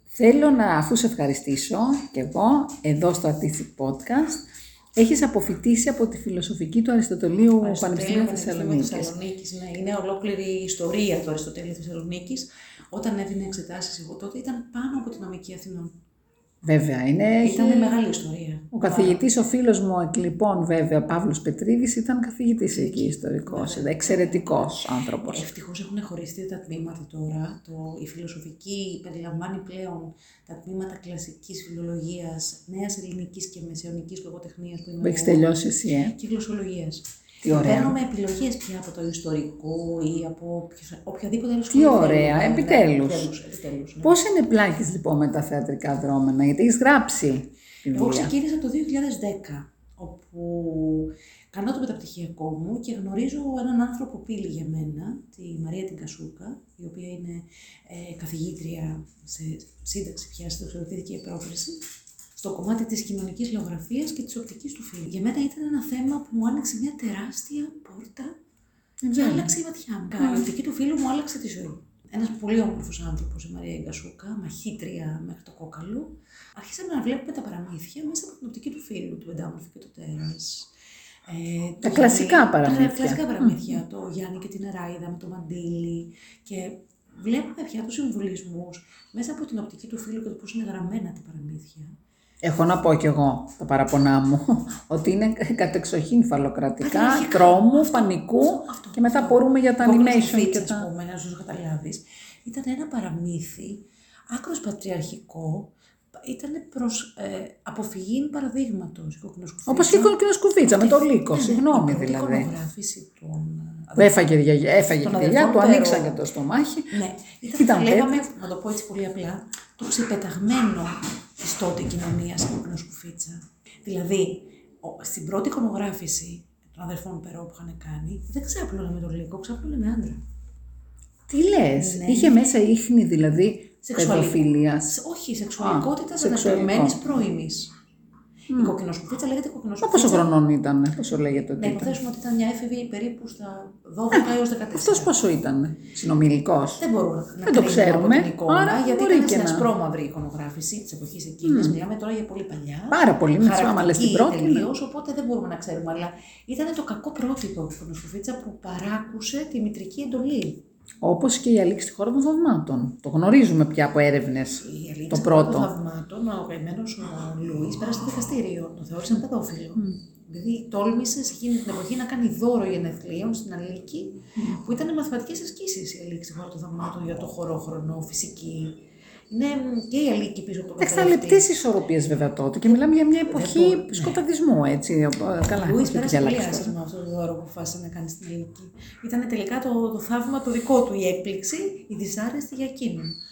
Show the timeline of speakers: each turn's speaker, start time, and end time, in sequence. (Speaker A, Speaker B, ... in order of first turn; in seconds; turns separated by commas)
Speaker A: 0.1-9.1, Speaker B: 7.6-15.9, Speaker A: 16.6-18.0, Speaker B: 17.4-19.2, Speaker A: 18.7-25.4, Speaker B: 22.7-35.5, Speaker A: 35.0-36.1, Speaker B: 36.1-44.2, Speaker A: 37.4-38.0, Speaker A: 41.7-43.3, Speaker A: 44.0-48.3, Speaker B: 47.9-61.8, Speaker B: 62.4-68.3, Speaker A: 69.0-69.5, Speaker B: 69.1-80.7, Speaker A: 70.2-70.5, Speaker B: 81.3-91.9, Speaker A: 81.8-83.8, Speaker A: 92.4-100.9, Speaker B: 96.8-105.7, Speaker B: 106.2-114.2, Speaker A: 109.7-112.5, Speaker A: 114.0-117.0, Speaker B: 115.0-116.2, Speaker B: 116.9-130.2, Speaker A: 117.5-118.3, Speaker A: 131.3-134.9, Speaker B: 131.8-132.5, Speaker B: 133.8-137.7, Speaker A: 135.6-137.2, Speaker B: 138.5-140.3, Speaker A: 138.5-138.7, Speaker A: 139.8-142.0, Speaker B: 141.4-145.2, Speaker A: 144.1-146.8, Speaker B: 146.8-160.6, Speaker A: 147.4-149.7, Speaker A: 151.4-151.8, Speaker A: 152.9-154.7, Speaker A: 161.0-165.7, Speaker B: 164.6-181.5, Speaker A: 180.8-186.7, Speaker B: 182.7-184.2, Speaker B: 185.5-193.2